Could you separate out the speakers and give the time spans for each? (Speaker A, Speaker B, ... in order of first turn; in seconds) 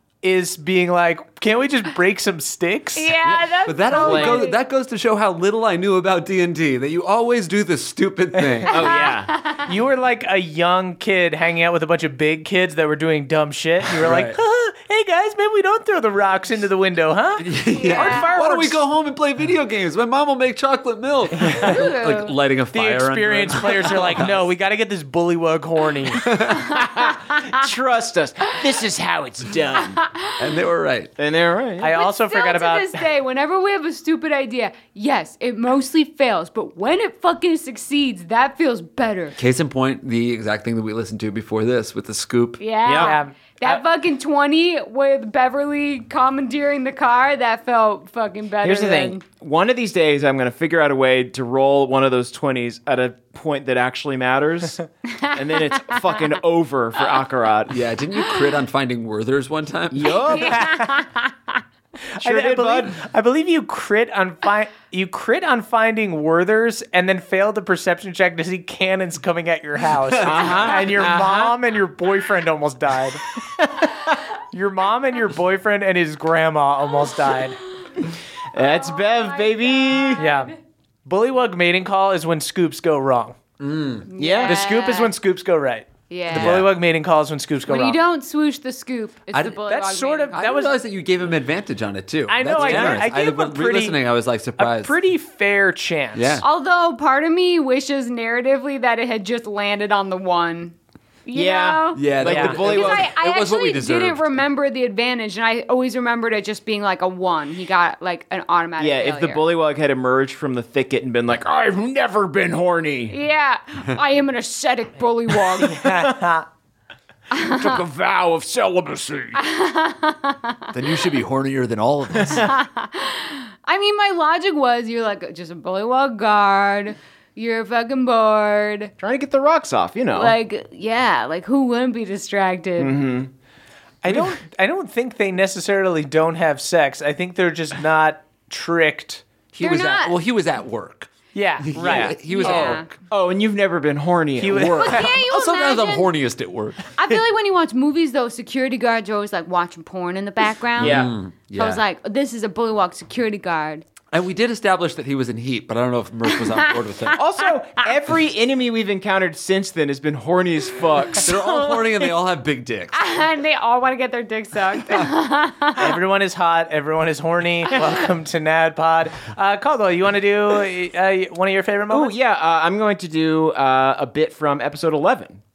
Speaker A: 0.2-3.1, 8.3-8.7, 9.6-17.5, 18.0-18.4, 21.4-21.8, 22.7-26.3, 31.8-33.0, 42.9-43.3, 60.5-60.9, 62.2-73.2, 74.5-77.6, 80.2-80.5, 81.0-83.4, 84.4-88.0, 89.6-90.7, 92.3-94.0, 94.6-96.4, 115.6-116.5, 134.0-139.2, 141.3-142.7, 144.4-145.0, 165.8-172.1
Speaker B: 2.9-4.6, 8.7-9.7, 17.7-18.4, 21.6-22.3, 30.0-30.4, 31.8-39.4, 42.6-49.2, 55.1-56.2, 60.3-61.2, 78.6-80.5, 84.1-85.1, 86.1-86.6, 87.7-90.6, 96.4-100.7, 101.2-109.5, 113.1-115.9, 117.3-117.8, 119.3-120.7, 122.3-128.9, 130.1-133.0, 139.6-140.1, 142.2-142.9, 144.8-146.1, 146.9-153.8, 162.9-165.9
Speaker C: 3.2-9.0, 14.0-14.4, 17.4-24.4, 26.2-26.8, 30.4-31.1, 39.4-42.6, 57.7-60.5, 70.1-70.8, 83.6-84.1, 86.3-86.7, 89.3-89.6, 90.3-94.9, 96.1-96.5, 101.9-104.4, 120.7-122.5, 139.5-142.9, 144.5-146.9, 150.8-151.8, 154.1-157.2, 161.2-163.0
Speaker D: 3.9-4.5, 8.7-9.3, 17.9-18.7, 26.6-30.0, 31.2-31.9, 42.8-43.1, 48.6-57.8, 59.9-60.7, 62.2-63.0, 70.2-71.5, 78.5-80.2, 84.2-84.6, 92.5-93.1, 101.3-103.1, 108.8-113.1, 117.3-119.4, 129.0-130.3, 132.8-133.3, 134.1-134.3, 141.7-145.0, 150.8-151.1, 157.2-161.8, 171.9-175.4